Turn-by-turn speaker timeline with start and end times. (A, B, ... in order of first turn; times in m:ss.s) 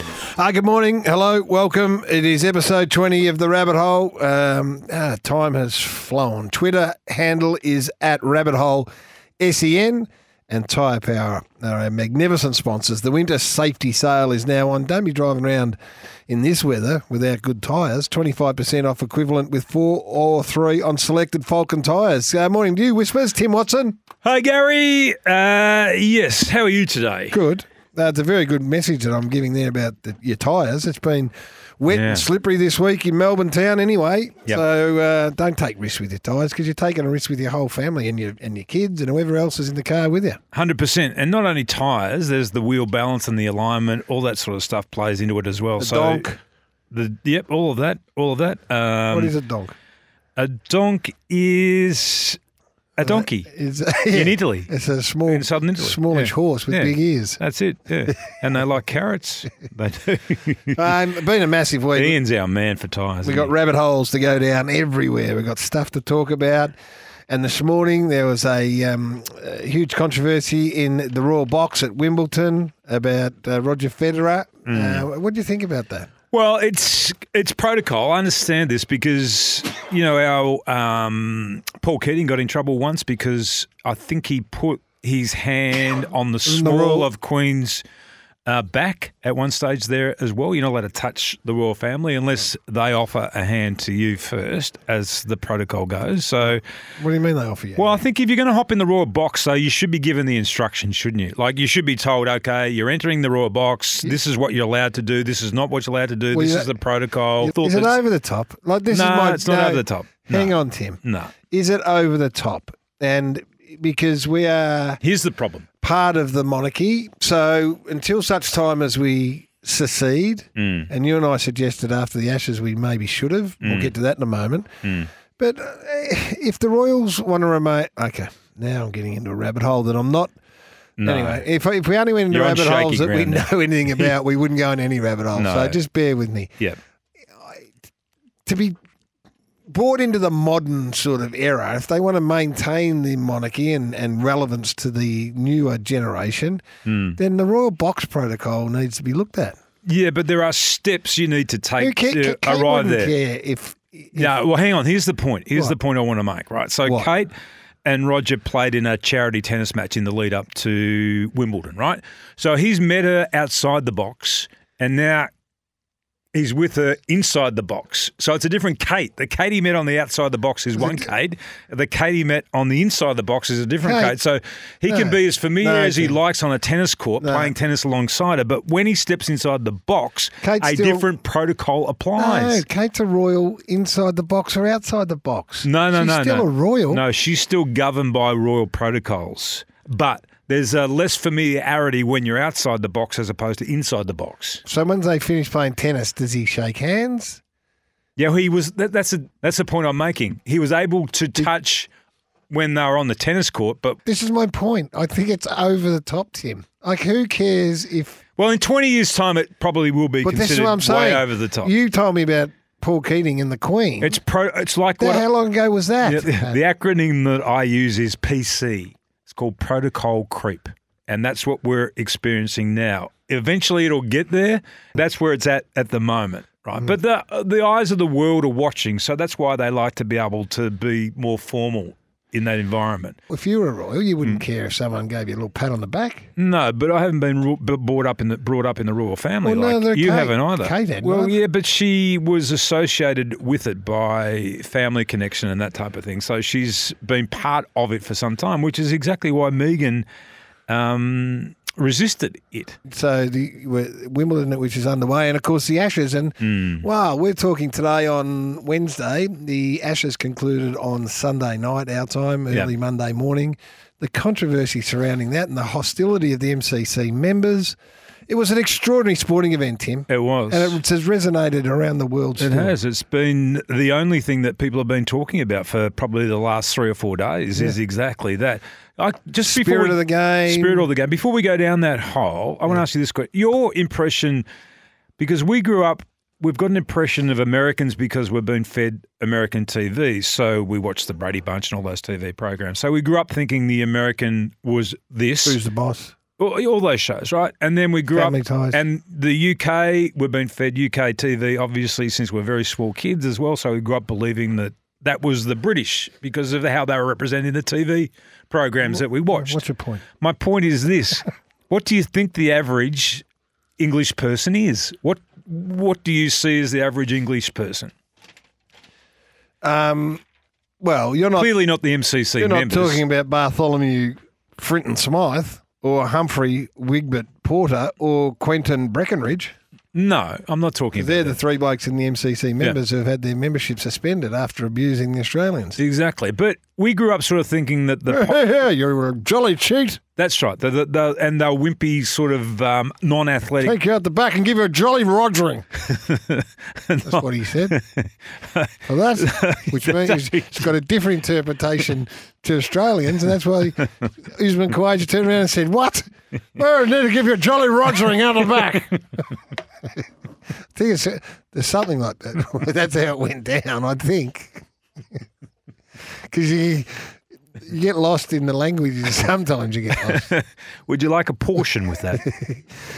0:00.4-0:15.8 A
0:16.3-0:24.0 A
0:24.2-0:27.4 B
0:27.3-0:40.4 A
0:31.9-0:32.3 B
0:40.5-0:46.3 B
0:45.8-0:46.4 A
0:46.9-0:49.3 B
0:49.1-0:49.8 A
0:50.4-0:52.4 B
0:53.0-0:53.5 B
0:53.0-0:57.4 A
0:54.1-0:54.7 B
0:55.3-1:00.8 B
1:00.8-1:02.2 A
1:02.0-1:03.5 B
1:03.2-1:06.7 A
1:07.3-1:16.1 A
1:14.7-1:15.0 B
1:16.3-1:27.8 B
1:26.4-1:27.1 A
1:28.5-1:36.6 B
1:37.0-1:38.0 A
1:37.8-1:48.0 B
1:46.3-1:46.7 A
1:47.4-1:55.0 A
1:48.9-1:51.3 B
1:55.0-1:55.7 B
1:55.8-2:04.7 A
2:00.6-2:00.9 B
2:03.6-2:03.9 B
2:04.8-2:05.1 B
2:05.4-2:10.4 A
2:11.0-2:11.4 B
2:11.0-2:16.6 A
2:12.3-2:14.1 B
2:15.4-2:15.8 B
2:18.4-2:18.8 A
2:19.7-2:26.6 A
2:26.9-2:27.2 B
2:27.2-2:29.6 A
2:29.8-2:33.2 B
2:31.8-2:34.4 A
2:34.1-2:37.3 B
2:37.8-2:45.3 B
2:46.3-3:02.6 B
2:53.8-2:54.2 A
2:54.9-2:56.2 A
2:57.2-2:57.5 A
3:00.4-3:01.0 A
3:02.2-3:07.0 A
3:05.6-3:14.6 B
3:14.7-3:17.4 A
3:18.2-3:21.9 B
3:22.5-3:24.0 B
3:24.1-3:28.2 A
3:28.4-3:31.7 B
3:30.2-3:34.2 A
3:34.0-3:35.3 B
3:35.0-3:36.6 A
3:36.0-3:53.2 B
3:53.3-3:56.3 A
3:56.4-4:10.1 B
3:59.4-4:01.4 A
4:10.7-4:12.8 B
4:12.9-4:27.8 A
4:16.4-4:16.8 B
4:28.3-4:32.7 A
4:30.1-4:30.8 B
4:32.4-4:44.5 B
4:39.5-4:40.9 A
4:45.2-4:55.6 B
4:55.4-4:56.2 A
4:56.4-5:09.6 B
4:58.1-4:58.8 A
5:08.9-5:10.0 A
5:10.2-5:13.2 B
5:13.8-5:17.9 B
5:19.6-5:20.2 A
5:20.8-5:21.5 A
5:21.4-5:23.0 B
5:22.4-5:29.5 A
5:29.9-5:31.4 B
5:31.0-5:35.8 A
5:35.8-5:38.4 B
5:38.1-5:40.0 A
5:40.2-5:43.8 B
5:43.6-5:45.7 A
5:45.9-5:50.5 B
5:47.0-5:47.8 A
5:48.8-5:59.0 A
6:00.8-6:04.7 A
6:06.3-6:07.1 A
6:07.6-6:10.3 A
6:10.0-6:12.4 B
6:12.3-6:12.6 A